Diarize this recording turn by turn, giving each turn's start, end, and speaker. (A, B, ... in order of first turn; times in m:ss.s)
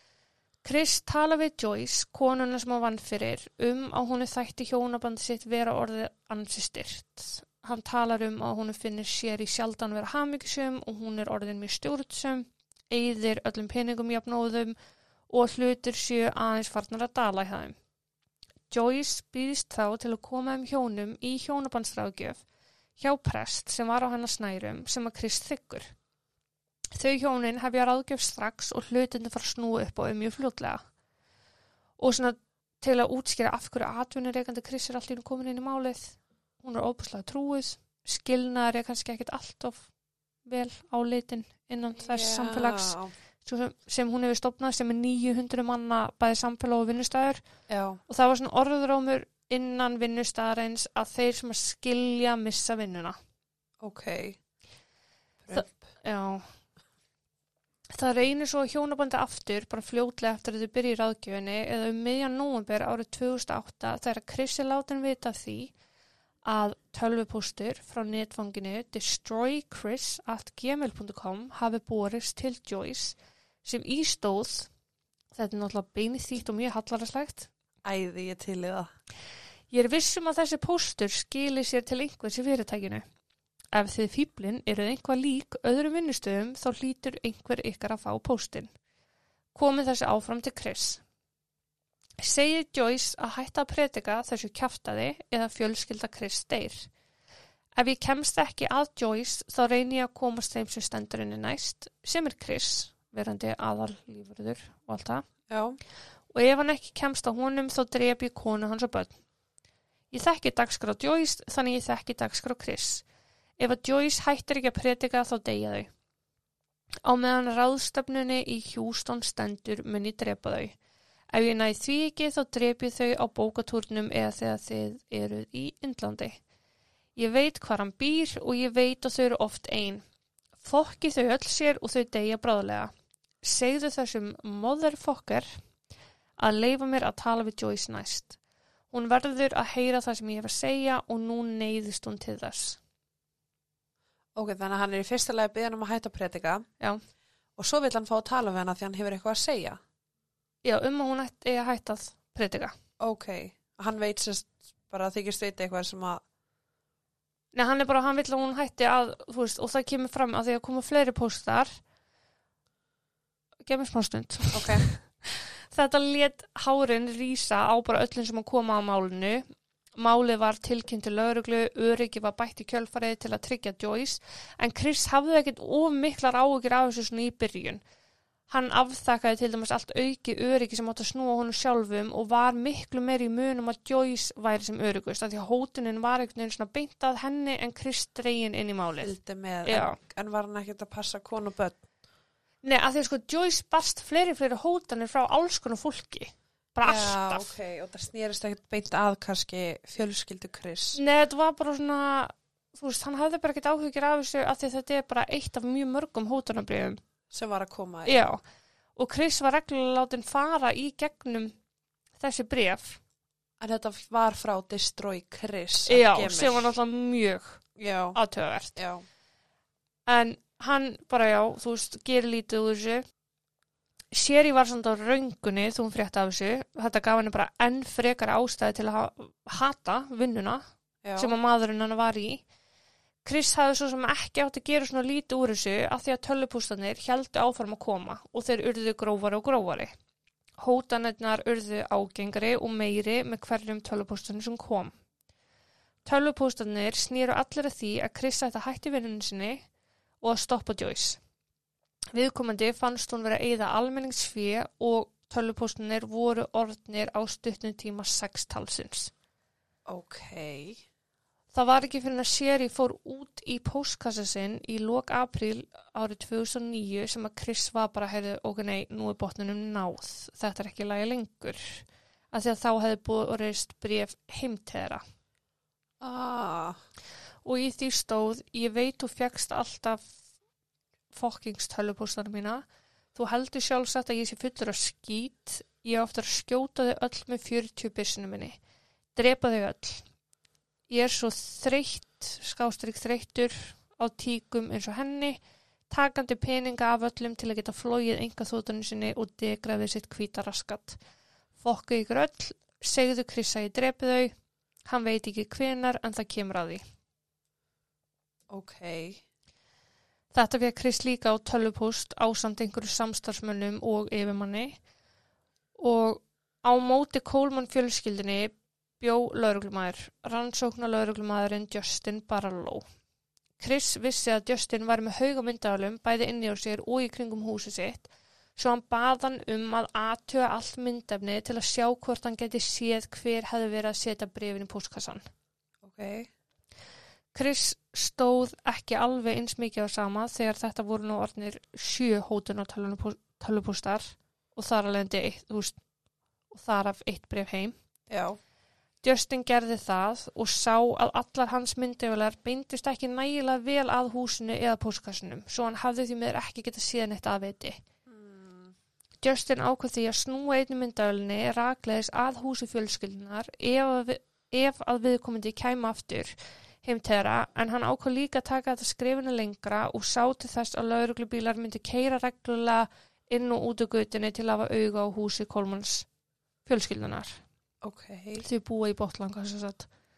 0:00.6-0:14.8 A
0:15.3-0:17.8 A
0:18.7-0:22.4 A
0:23.0-0:25.9 A
0:26.9-0:30.8 A
0:32.0-0:39.9 A
0:40.5-0:47.4 A
0:42.0-0:43.1 B
0:47.7-0:48.0 B
0:48.1-0:53.2 A
0:53.8-0:54.4 B
0:55.4-0:55.8 B
0:55.5-0:56.5 A
0:57.9-1:05.7 A
1:06.4-1:14.7 A
1:15.3-1:17.5 A
1:17.8-1:18.9 B
1:19.7-1:23.0 A
1:23.7-1:28.7 A
1:29.6-1:31.0 A
1:32.2-1:36.9 A
1:37.8-1:45.3 A
1:45.5-1:45.8 B
1:46.3-1:49.2 A
1:50.1-1:53.0 A
1:53.6-1:55.9 A
1:57.0-2:00.8 A
2:01.3-2:06.4 A
2:07.2-2:10.0 A
2:10.6-2:15.5 A
2:16.4-2:18.4 A
2:18.9-2:22.8 A
2:24.4-2:26.7 B
2:27.6-2:29.8 B
2:30.6-2:32.7 A
2:33.0-2:36.2 B
2:37.5-2:41.7 A
2:43.6-2:49.4 A
2:44.5-2:44.9 B
2:50.0-2:57.8 A
2:58.5-3:10.0 A
3:09.0-3:11.8 B
3:12.6-3:17.6 A
3:16.8-3:21.0 B
3:21.0-3:27.0 A
3:27.3-3:28.3 B
3:28.0-3:28.4 A
3:29.0-3:31.5 A
3:32.2-3:33.0 A
3:33.6-3:36.7 B
3:35.9-3:38.8 A
3:37.8-3:38.2 B
3:38.8-3:39.0 B
3:40.1-3:43.0 A
3:44.1-3:50.6 A
3:51.0-3:51.3 B
3:51.2-3:52.4 A
3:53.2-3:59.9 A
4:00.6-4:04.9 A
4:06.0-4:09.6 A
4:10.2-4:11.2 A
4:12.1-4:19.1 A
4:19.9-4:20.8 B
4:21.5-4:35.0 A
4:36.0-4:36.8 B
4:37.4-4:40.1 A
4:41.1-4:42.6 A
4:43.2-4:48.6 A
4:49.2-4:50.0 A
4:50.9-4:55.4 A
4:55.9-5:01.0 A
5:01.6-5:04.3 A
5:04.8-5:06.8 A
5:08.5-5:09.2 B
5:10.3-5:14.8 A
5:15.8-5:22.8 A
5:23.6-5:35.2 A
5:35.8-5:36.3 B
5:37.3-5:45.8 A
5:46.5-5:47.7 A
5:48.1-5:48.4 B
5:49.0-5:57.8 A
5:58.1-5:58.7 B
5:59.2-6:16.1 A
6:16.7-6:17.4 A
6:17.8-6:18.4 B
6:18.4-6:19.9 A